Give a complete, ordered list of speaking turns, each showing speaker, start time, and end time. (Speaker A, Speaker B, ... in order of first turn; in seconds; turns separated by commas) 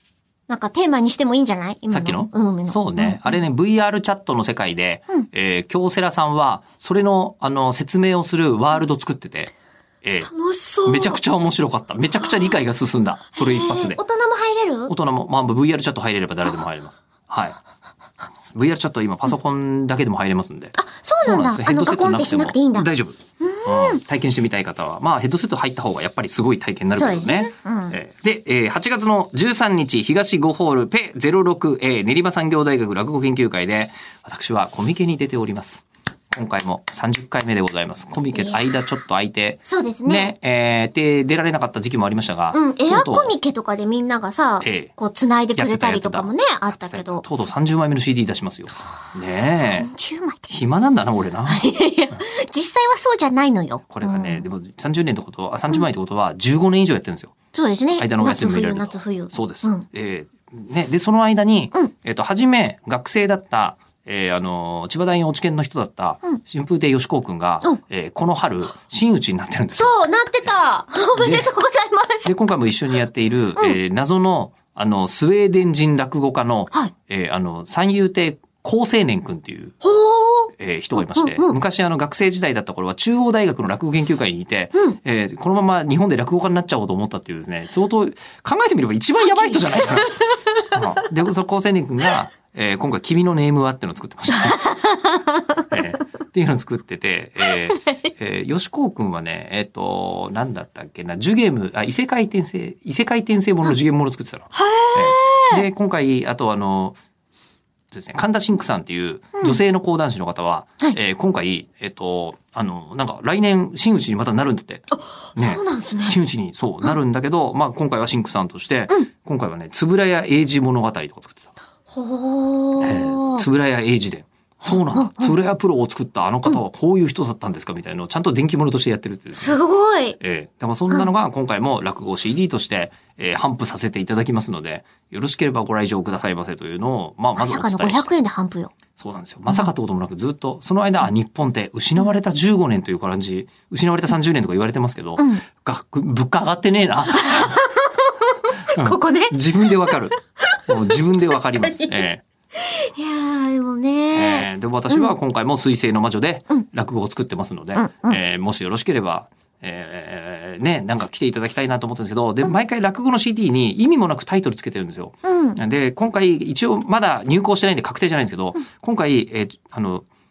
Speaker A: 0.5-3.4, Speaker B: 1.9-9.5, Speaker B: 10.0-10.3, Speaker A: 10.2-11.2, Speaker B: 10.8-14.0, Speaker A: 13.4-14.9, Speaker B: 14.9-17.6, Speaker B: 18.6-43.3, Speaker A: 20.8-22.9, Speaker A: 23.4-24.0, Speaker A: 27.0-28.0, Speaker A: 39.7-40.3, Speaker A: 42.5-47.2, Speaker B: 44.6-44.9, Speaker B: 45.6-49.9, Speaker A: 49.5-50.5, Speaker B: 50.5-52.2, Speaker A: 51.5-54.5, Speaker B: 53.9-57.4, Speaker A: 57.5-59.9, Speaker B: 58.0-70.5, Speaker A: 69.8-72.3, Speaker B: 71.2-71.5, Speaker B: 72.2-79.8, Speaker A: 79.8-81.5, Speaker B: 80.5-90.2, Speaker A: 89.4-90.3, Speaker B: 90.7-94.7, Speaker A: 94.7-95.4, Speaker B: 95.6-107.0, Speaker A: 104.5-105.7, Speaker B: 107.9-121.5, Speaker A: 115.2-116.2, Speaker A: 121.9-123.4, Speaker B: 122.8-129.6, Speaker A: 124.9-125.3, Speaker A: 129.3-130.2, Speaker B: 130.2-138.1, Speaker A: 137.4-138.7, Speaker B: 139.0-147.6, Speaker A: 145.2-145.4, Speaker A: 147.1-148.1, Speaker B: 148.7-152.2, Speaker A: 148.7-150.0, Speaker A: 152.6-155.1, Speaker B: 154.1-170.1, Speaker A: 157.8-158.2, Speaker A: 165.3-165.6